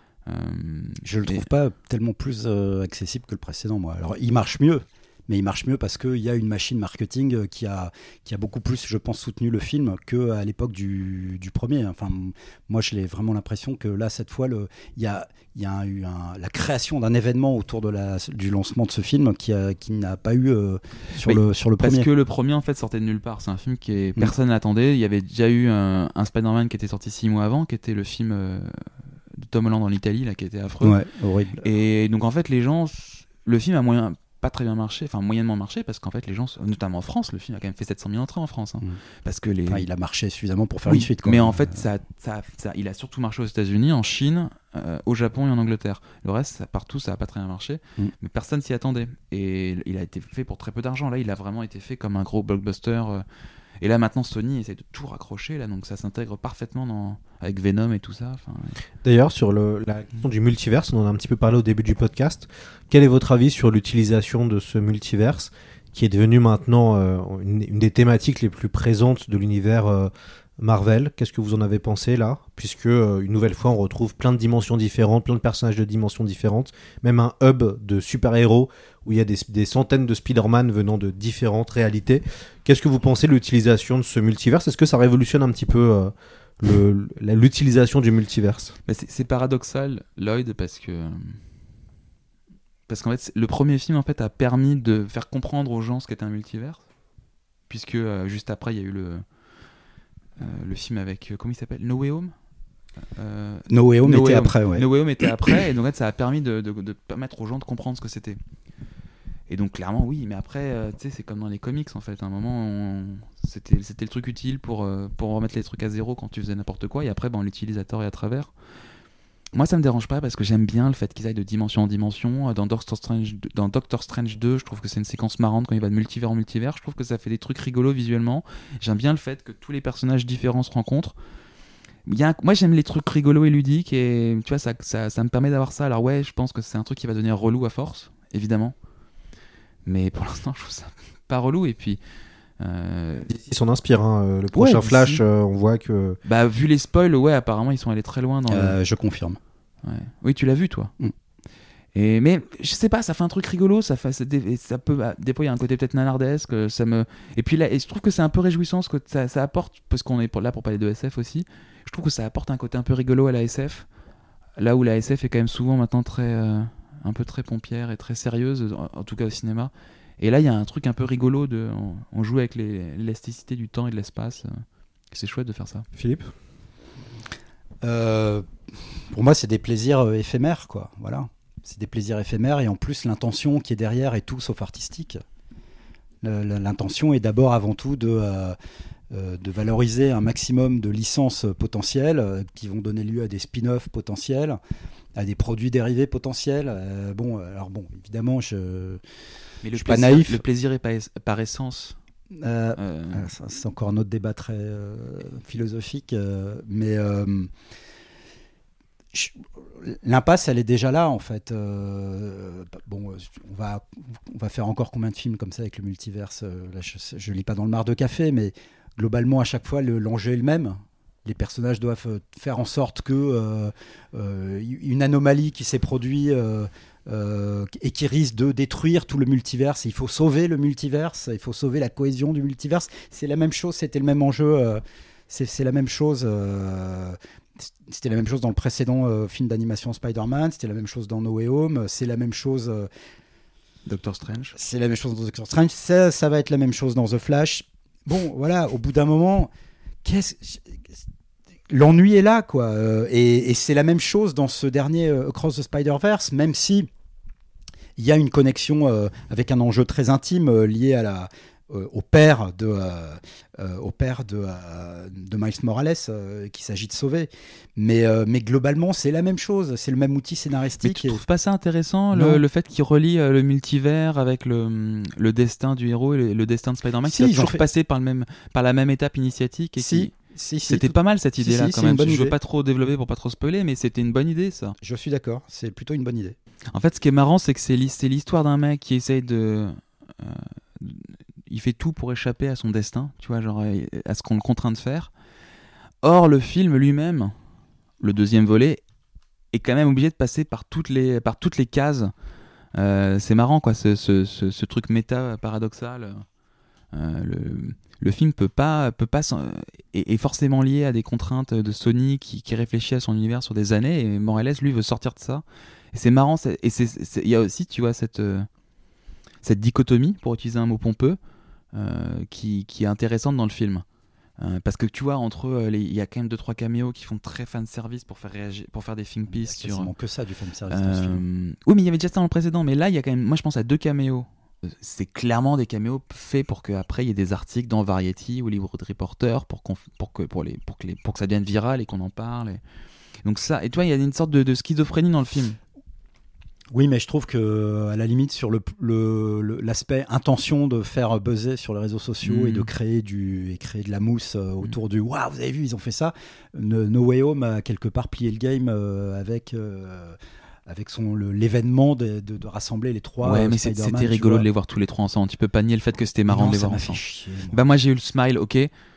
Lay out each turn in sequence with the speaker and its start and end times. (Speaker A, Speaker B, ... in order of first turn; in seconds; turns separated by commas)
Speaker A: 0.3-1.5, Speaker B: 1.0-22.1, Speaker A: 21.2-31.0, Speaker B: 30.8-31.6, Speaker A: 31.6-39.9, Speaker B: 39.7-41.8, Speaker A: 40.9-53.2, Speaker A: 53.8-58.8, Speaker C: 59.0-88.7, Speaker A: 88.8-91.4, Speaker A: 92.9-96.8, Speaker A: 97.7-99.2, Speaker A: 100.4-102.3, Speaker A: 103.2-108.4, Speaker B: 103.7-104.8, Speaker A: 109.5-118.5, Speaker A: 119.5-131.1, Speaker A: 132.1-138.7, Speaker A: 139.8-142.0, Speaker A: 142.6-143.3, Speaker C: 143.3-146.2, Speaker B: 144.5-145.2, Speaker A: 146.2-148.8, Speaker B: 148.5-149.4, Speaker A: 149.8-150.9, Speaker A: 151.9-163.8, Speaker A: 164.6-175.9, Speaker C: 175.9-176.3, Speaker B: 177.8-178.5, Speaker B: 179.1-185.2, Speaker B: 186.2-188.6, Speaker B: 189.1-194.6, Speaker B: 195.2-199.0, Speaker A: 199.6-202.0, Speaker B: 199.7-200.4, Speaker B: 202.4-207.5, Speaker A: 202.8-203.3, Speaker B: 209.1-237.2, Speaker B: 237.8-242.9, Speaker A: 243.8-244.5, Speaker B: 244.5-249.5, Speaker B: 250.0-250.8, Speaker B: 251.7-256.9, Speaker B: 258.0-271.2, Speaker A: 270.8-280.1, Speaker B: 272.1-272.4, Speaker B: 277.0-277.6, Speaker B: 279.8-282.3, Speaker A: 280.7-284.7, Speaker B: 284.8-286.4, Speaker A: 286.7-295.1, Speaker A: 296.0-297.4, Speaker A: 298.0-298.8, Speaker A: 299.5-302.1, Speaker A: 302.7-306.2, Speaker A: 306.9-318.5, Speaker A: 319.4-321.2, Speaker A: 321.7-323.8, Speaker A: 324.4-329.9, Speaker B: 329.3-331.2, Speaker A: 330.7-342.6, Speaker A: 343.2-345.6, Speaker B: 346.7-364.4, Speaker A: 352.2-352.7, Speaker A: 363.2-368.7, Speaker B: 366.3-367.6